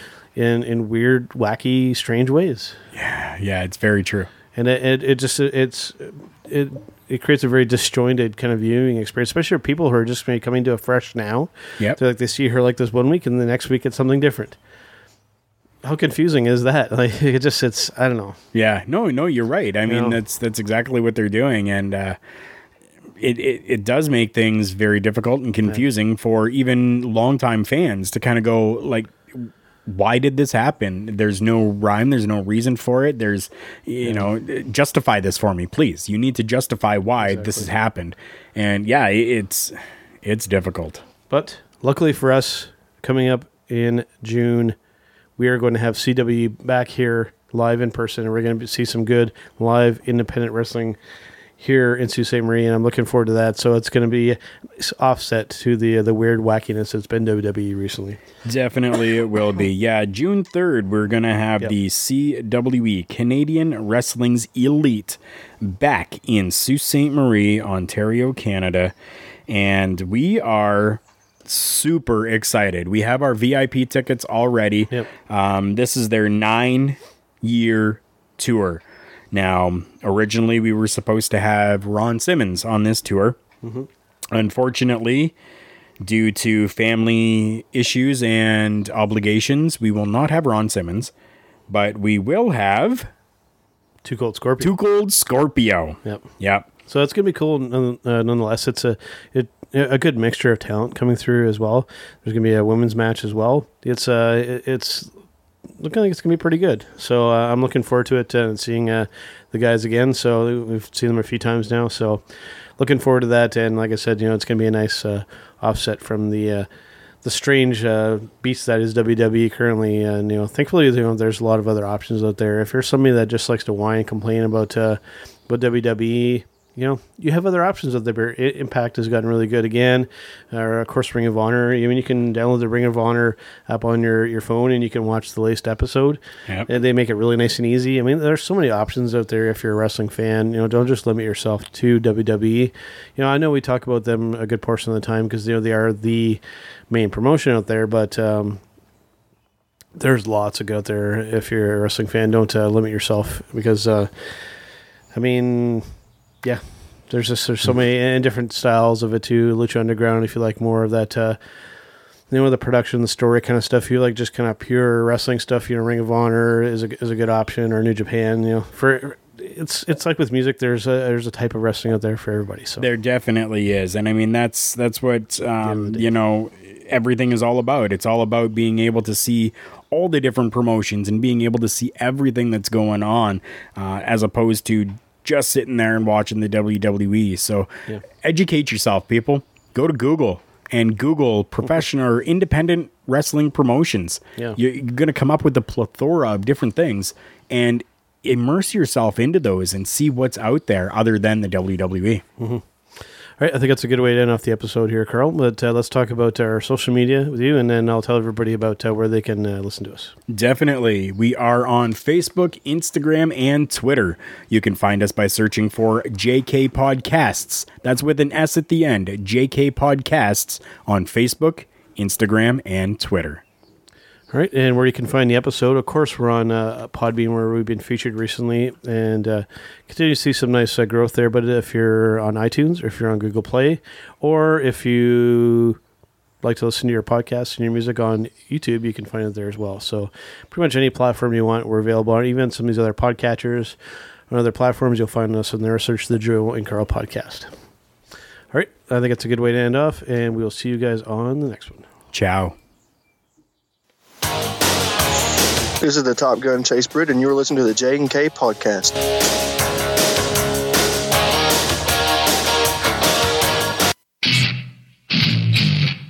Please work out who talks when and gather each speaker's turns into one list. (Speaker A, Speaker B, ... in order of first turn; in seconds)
Speaker A: 0.3-2.8, 4.5-14.6, 15.8-18.4, 19.9-20.2, 34.0-34.3, 37.2-37.7, 41.3-44.8, 45.4-51.0, 51.6-58.2, 83.6-83.9, 94.0-94.7, 96.9-105.1, 105.8-112.2, 112.8-116.7, 117.2-148.6, 149.9-154.3, 155.1-155.9, 156.4-161.4, 162.3-172.9, 175.6-176.1, 202.4-202.6, 203.4-210.1, 224.3-235.8, 236.4-243.8, 244.3-247.5, 248.5-251.9
Speaker B: 2.9-4.3, 18.5-22.2, 23.2-41.0, 58.5-68.9, 69.5-83.4, 84.3-85.3, 86.0-91.1, 91.7-93.1, 94.6-96.7, 172.8-202.2, 210.3-223.4, 252.1-252.6
Speaker C: 255.8-259.0